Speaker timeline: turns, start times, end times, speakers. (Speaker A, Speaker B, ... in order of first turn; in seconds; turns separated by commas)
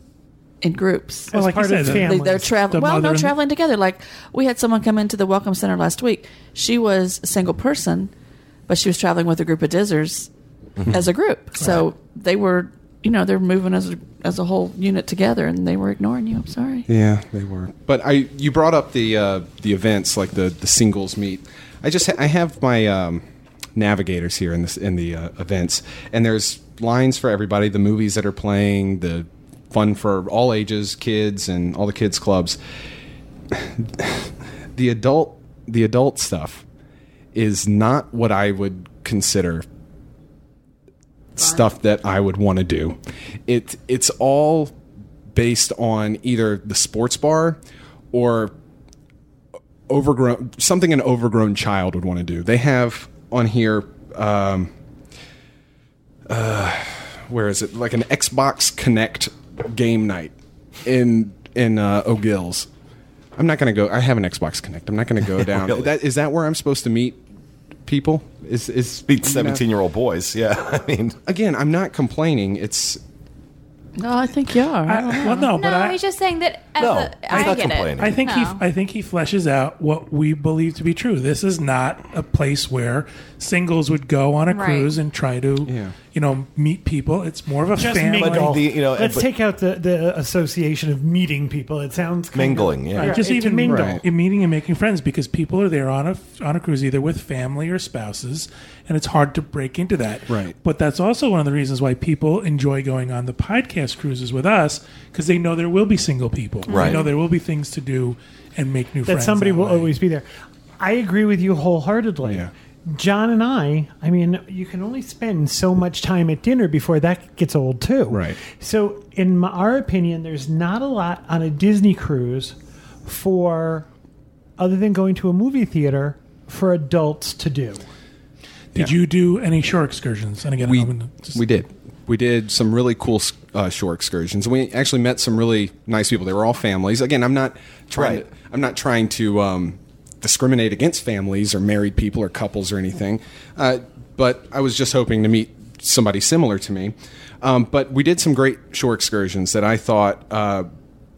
Speaker A: 0.6-1.3, Speaker B: 1.3-2.5, Speaker C: 1.3-3.4, Speaker A: 1.9-8.1, Speaker A: 8.7-10.3, Speaker A: 10.9-16.9, Speaker D: 16.9-23.2, Speaker D: 23.8-32.6, Speaker D: 33.5-36.6, Speaker D: 37.3-39.6, Speaker D: 41.4-44.7, Speaker D: 45.3-47.6, Speaker D: 48.1-48.5, Speaker D: 49.9-54.7, Speaker D: 56.3-60.3, Speaker D: 60.8-62.7, Speaker D: 63.4-67.2, Speaker E: 65.5-65.9, Speaker D: 67.8-69.6, Speaker E: 69.1-71.2, Speaker D: 71.2-73.0, Speaker A: 74.0-75.5, Speaker C: 74.8-76.0, Speaker F: 75.5-78.6, Speaker E: 76.8-78.1, Speaker C: 77.3-88.6, Speaker F: 84.5-84.9, Speaker D: 85.7-85.9, Speaker B: 87.8-94.0, Speaker E: 88.2-89.3, Speaker E: 92.3-93.2, Speaker C: 92.9-110.0, Speaker D: 93.6-94.0, Speaker D: 100.3-100.5, Speaker F: 106.7-107.1, Speaker E: 106.7-107.0, Speaker B: 109.0-110.2, Speaker B: 110.8-123.9, Speaker D: 112.2-112.5, Speaker D: 118.1-118.4, Speaker B: 124.6-127.8, Speaker C: 128.7-131.4, Speaker D: 130.6-150.7, Speaker E: 137.9-138.2